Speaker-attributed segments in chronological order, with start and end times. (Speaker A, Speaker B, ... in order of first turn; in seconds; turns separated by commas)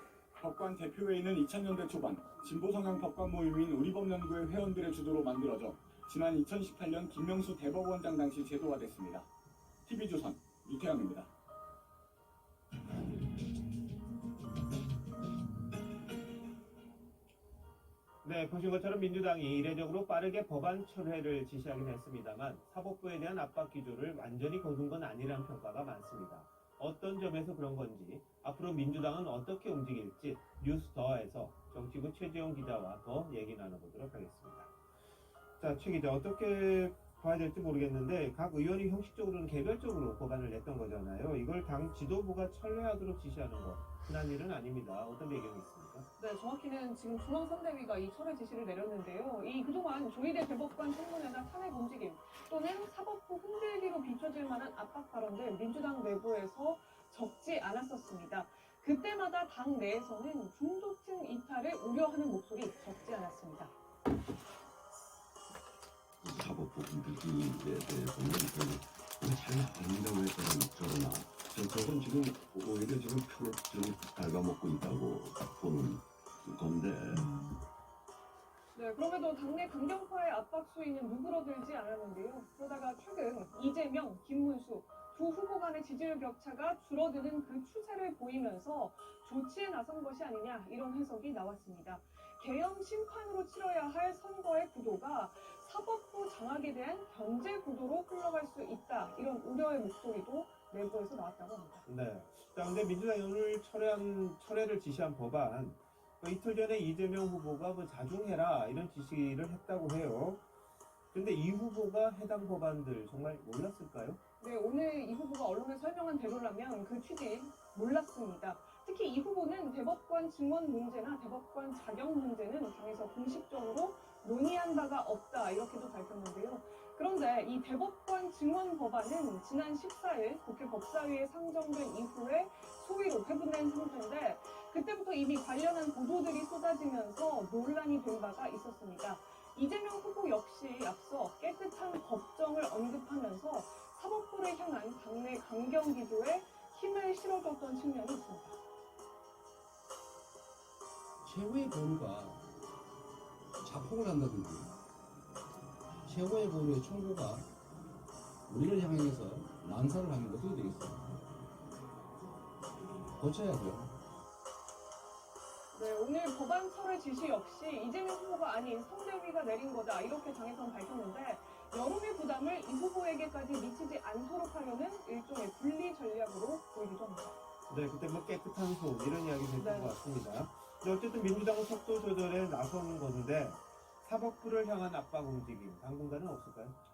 Speaker A: 0.4-9.3, Speaker A: 9.8-11.3, Speaker B: 18.2-34.7, Speaker B: 35.6-46.1, Speaker C: 46.2-63.7, Speaker D: 66.2-77.4, Speaker C: 78.7-101.8, Speaker B: 101.8-110.4, Speaker B: 111.1-114.2, Speaker C: 114.4-148.6, Speaker E: 151.2-152.4, Speaker E: 153.6-154.7, Speaker E: 156.1-157.5, Speaker E: 158.5-161.3, Speaker E: 163.2-163.9, Speaker C: 165.7-177.3, Speaker B: 177.7-186.7, Speaker C: 179.6-179.9